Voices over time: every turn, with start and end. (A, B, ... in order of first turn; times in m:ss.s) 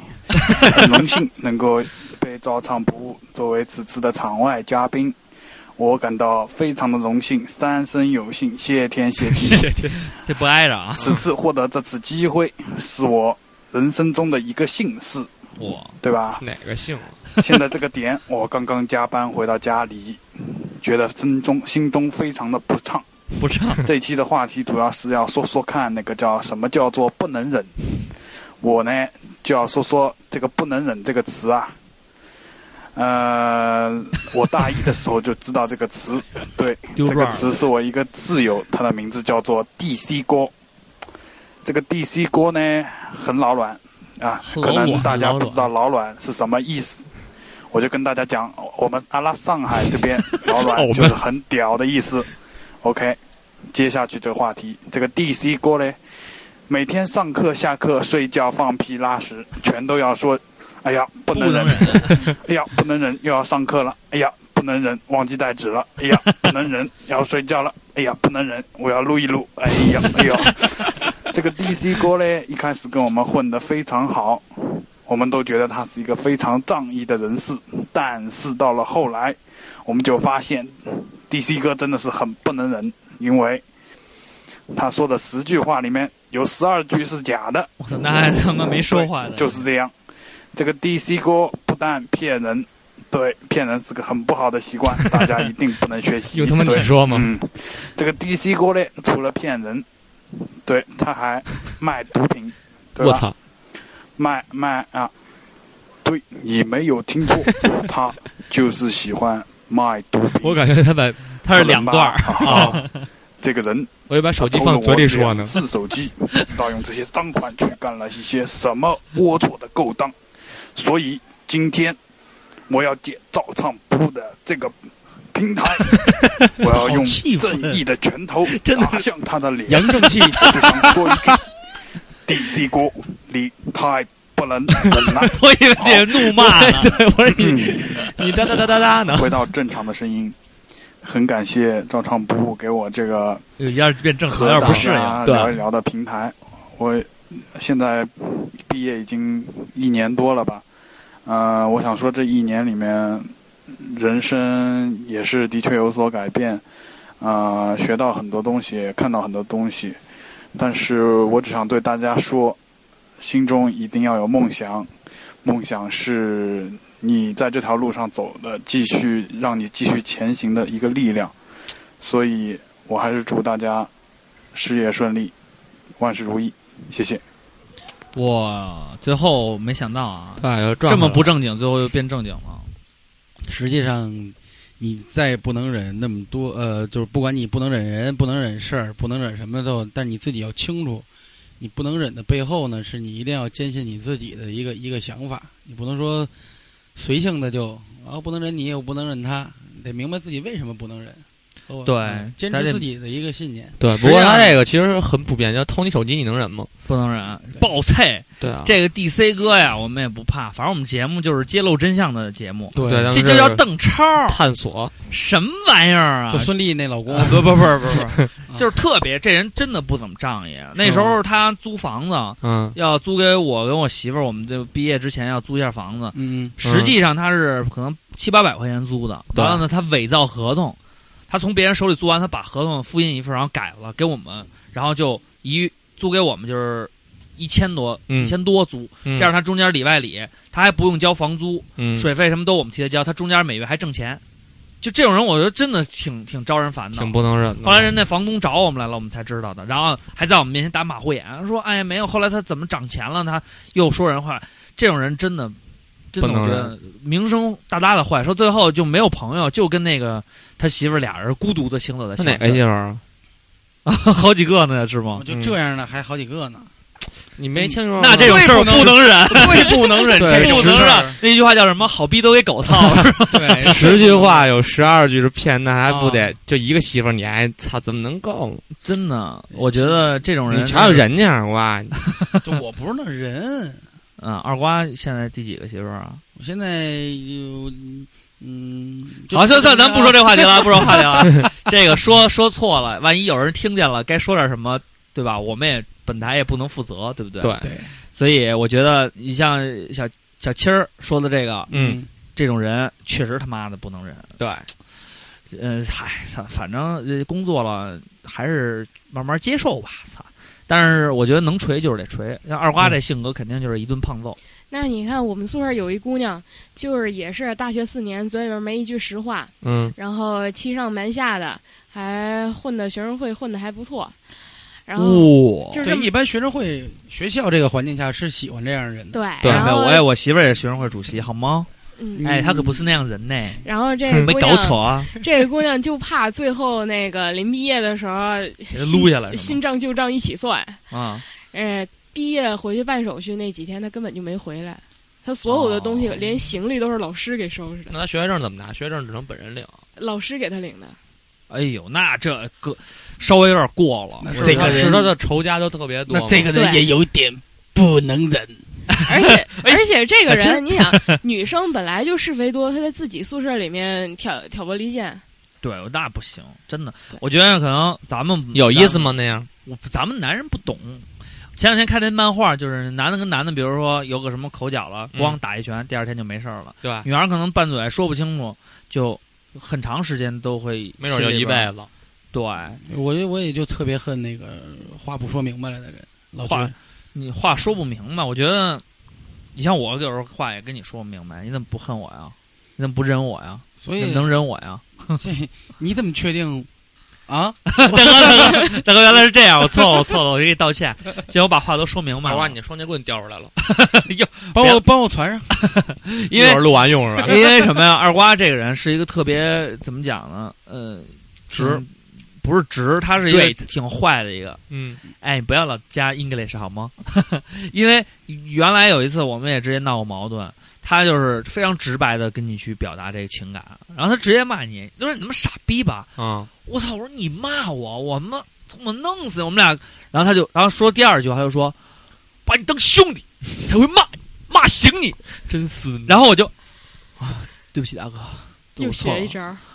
0:00.6-0:05.2 A
0:05.8-0:09.7 A
0:09.3-0:10.0 B
0:10.0-0:11.2 C
0:11.0-0:15.3 A
0:15.6-0:16.0 C
0:16.0-0:16.4 A
0:16.4-0:17.2 B
0:17.4-0:23.0 A
0:23.4-0:23.8 C
0:23.8-0:27.7 A
0:28.6-0:31.7 A
0:33.0-0:40.5 A
0:37.0-0:37.5 C
0:41.6-0:47.1 A
0:44.4-0:45.2 C
0:44.6-0:45.7 B
0:47.7-0:52.3 A
0:50.4-0:51.2 B
0:52.8-0:53.2 A
0:53.7-0:56.0 A
0:56.7-1:23.6 A
1:01.3-1:02.3 C
1:24.7-1:27.7 A
1:27.8-1:29.6 C
1:28.8-1:29.9 A
1:30.5-1:39.8 A
1:36.3-1:37.3 B
1:40.6-1:43.3 A
1:43.0-1:43.3 B
1:44.2-1:45.1 A
1:46.0-1:50.6 A
1:50.4-1:51.2 B
1:51.4-1:53.0 C
1:51.5-1:52.8 A
1:52.4-1:52.8 B
1:53.4-2:00.1 A
1:54.1-1:55.6 B
2:00.7-2:02.0 A
2:02.7-2:04.8 A
2:05.3-2:06.0 A
2:06.6-2:11.4 A
2:06.6-2:07.8 D
2:08.5-2:09.0 C
2:09.7-2:10.6 D
2:10.3-2:10.7 C
2:12.2-2:16.1 A
2:15.2-2:17.9 C
2:16.4-2:19.4 B
2:17.3-2:17.8 A
2:19.0-2:20.4 A
2:21.0-2:23.4 A
2:23.6-2:25.6 C
2:24.3-2:30.6 A
2:24.6-2:24.9 B
2:31.2-2:36.6 A
2:37.2-2:40.0 A
2:40.5-2:42.6 A
2:43.2-2:44.9 A
2:45.4-2:51.3 A
2:52.0-2:53.9 A
2:54.5-2:55.3 A
2:56.0-2:57.2 A
2:58.1-3:02.7 C
3:00.4-3:01.3 B
3:03.5-3:11.0 D
3:11.6-3:16.3 D
3:16.9-3:24.2 D
3:21.8-3:22.8 C
3:23.8-3:26.7 B
3:23.9-3:24.5 C
3:26.9-3:34.4 C
3:28.4-3:28.7 B
3:32.7-3:33.2 D
3:32.8-3:33.6 B
3:34.2-3:34.9 B
3:35.1-3:36.5 C
3:36.3-3:37.7 D
3:37.1-3:50.8 C
3:40.8-3:41.1 D
3:42.4-3:42.8 B
3:46.1-3:46.6 D
3:46.6-3:47.0 B
3:49.3-3:49.6 B
3:51.3-4:04.2 C
3:58.1-3:58.4 B
3:59.0-3:59.3 B
4:01.8-4:02.1 B
4:04.8-4:15.6 C
4:06.9-4:07.9 B
4:16.1-4:22.6 C
4:16.2-4:16.7 B
4:22.2-4:23.0 B
4:23.8-4:25.2 C
4:25.1-4:26.7 D
4:25.3-4:25.5 B
4:27.4-4:28.9 B
4:27.6-4:31.2 D
4:28.0-4:34.1 C
4:30.2-4:31.1 B
4:33.2-4:34.5 D
4:33.6-4:38.6 B
4:35.8-4:36.3 D
4:38.8-4:41.0 C
4:39.5-4:40.1 D
4:40.5-4:42.0 B
4:42.4-4:43.8 D
4:44.2-4:46.2 C
4:46.4-4:51.3 D
4:49.3-4:57.6 C
4:57.4-4:57.7 B
4:57.6-4:57.9 D
4:58.1-5:01.7 C
5:01.7-5:02.1 D
5:01.7-5:02.0 B
5:02.4-5:04.3 C
5:04.4-5:04.7 B
5:05.5-5:14.4 C
5:14.7-5:24.2 E
5:19.6-5:19.9 B
5:24.8-5:26.1 E
5:25.0-5:25.9 C
5:25.8-5:29.2 D
5:29.1-5:30.0 E
5:29.4-5:29.7 B
5:29.4-5:31.7 C
5:32.0-5:32.2 E
5:32.2-5:32.9 D
5:32.2-5:33.6 C
5:33.6-5:40.8 E
5:34.2-5:35.1 C
5:38.7-5:39.6 C
5:40.9-5:41.2 C
5:41.4-5:47.9 E
5:45.5-5:46.2 C
5:47.9-5:49.8 B
5:50.0-5:51.0 E
5:51.5-5:54.9 C
5:54.2-5:55.1 D
5:54.3-5:56.5 B
5:56.1-5:58.6 D
5:56.5-5:56.9 E
5:59.0-6:01.2 C
5:59.0-6:05.2 E
6:05.6-6:09.1 C
6:08.5-6:09.5 B
6:09.6-6:11.0 C
6:11.6-6:21.7 C
6:15.1-6:15.4 B
6:16.8-6:17.1 B
6:21.0-6:21.9 B
6:22.3-6:22.8 C
6:22.8-6:26.7 D
6:26.4-6:28.8 C
6:29.5-6:35.2 C
6:33.8-6:34.3 D
6:35.2-6:36.7 D
6:37.3-6:38.8 D
6:37.7-6:42.6 C
6:42.2-6:43.5 B
6:43.6-6:44.8 C
6:44.5-6:45.5 D
6:45.5-6:46.6 C
6:46.3-6:47.4 B
6:47.2-6:51.9 C
6:51.5-6:51.8 B
6:52.4-6:54.6 C
6:53.1-6:53.6 B
6:54.7-6:55.0 B
6:55.2-7:06.1 C
7:06.2-7:06.5 B
7:06.6-7:11.7 C
7:12.4-7:15.2 C
7:15.5-7:16.2 B
7:16.0-7:16.5 C
7:17.2-7:19.4 C
7:18.8-7:19.6 E